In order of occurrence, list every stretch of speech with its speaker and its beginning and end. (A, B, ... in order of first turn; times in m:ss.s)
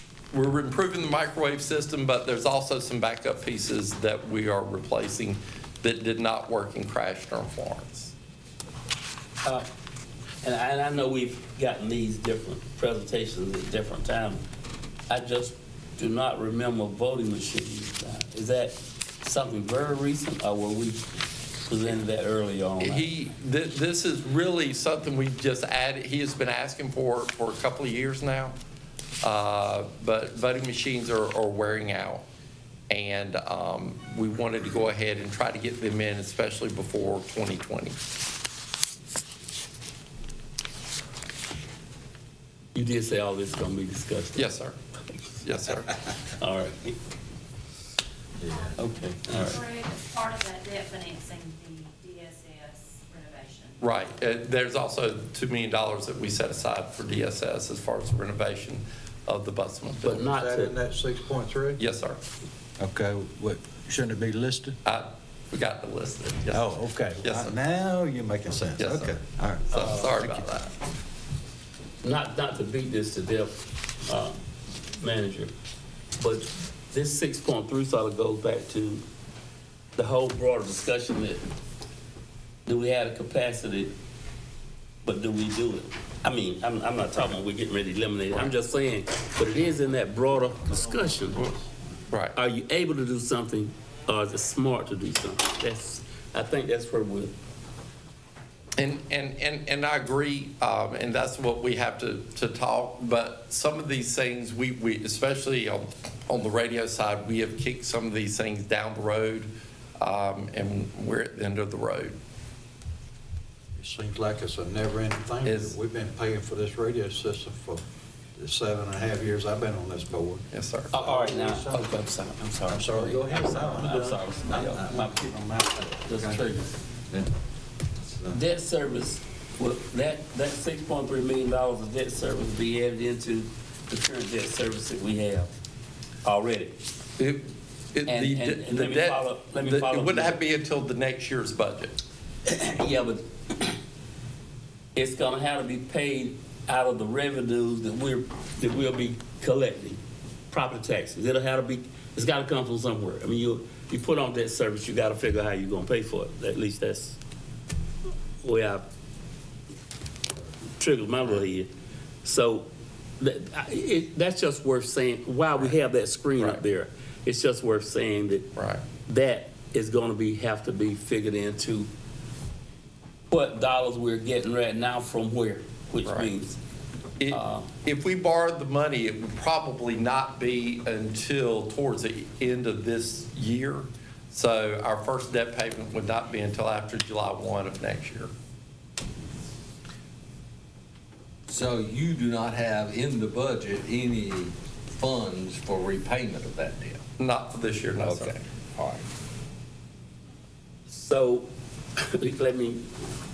0:00.3-0:08.1 A
0:10.4-0:14.4 B
0:15.1-0:21.0 B
0:21.7-0:23.0 B
0:22.8-0:28.6 A
0:29.2-0:32.2 A
0:32.9-0:38.0 A
0:42.7-0:44.4 B
0:44.4-0:44.8 A
0:45.4-0:45.9 A
0:46.3-0:47.0 B
0:48.5-0:48.8 C
0:48.8-0:49.6 B
0:49.4-0:53.8 C
0:53.8-1:00.2 A
1:00.0-1:00.8 B
1:00.2-1:01.8 D
1:01.8-1:02.2 A
1:02.8-1:04.8 D
1:04.8-1:06.7 A
1:06.5-1:10.5 D
1:07.2-1:07.6 A
1:08.8-1:09.2 A
1:09.7-1:10.7 A
1:09.7-1:10.1 B
1:12.0-1:14.4 B
1:14.9-1:15.5 B
1:16.2-1:19.0 B
1:20.0-1:21.4 B
1:22.7-1:23.9 B
1:25.0-1:31.5 B
1:32.1-1:32.3 A
1:32.3-1:37.3 B
1:38.8-1:52.1 A
1:53.8-1:57.8 D
1:55.4-1:55.7 A
1:58.4-2:02.0 D
2:00.5-2:01.0 A
2:00.9-2:06.7 B
2:02.7-2:07.3 D
2:08.1-2:08.4 D
2:08.3-2:15.5 B
2:16.2-2:16.8 B
2:17.2-2:21.9 A
2:18.1-2:20.4 B
2:22.4-2:23.8 B
2:24.9-2:30.0 B
2:30.5-2:37.2 B
2:38.4-2:38.8 B
2:40.8-2:41.7 B
2:42.2-2:42.7 B
2:43.2-2:48.5 B
2:46.4-2:46.6 A
2:48.6-2:48.8 A
2:49.1-2:51.9 B
2:53.3-2:56.6 B
2:56.0-2:56.3 A
2:57.2-3:08.3 A
2:57.3-2:57.7 B
3:11.5-3:17.0 E
3:17.2-3:18.4 A
3:18.0-3:19.0 E
3:20.9-3:22.8 B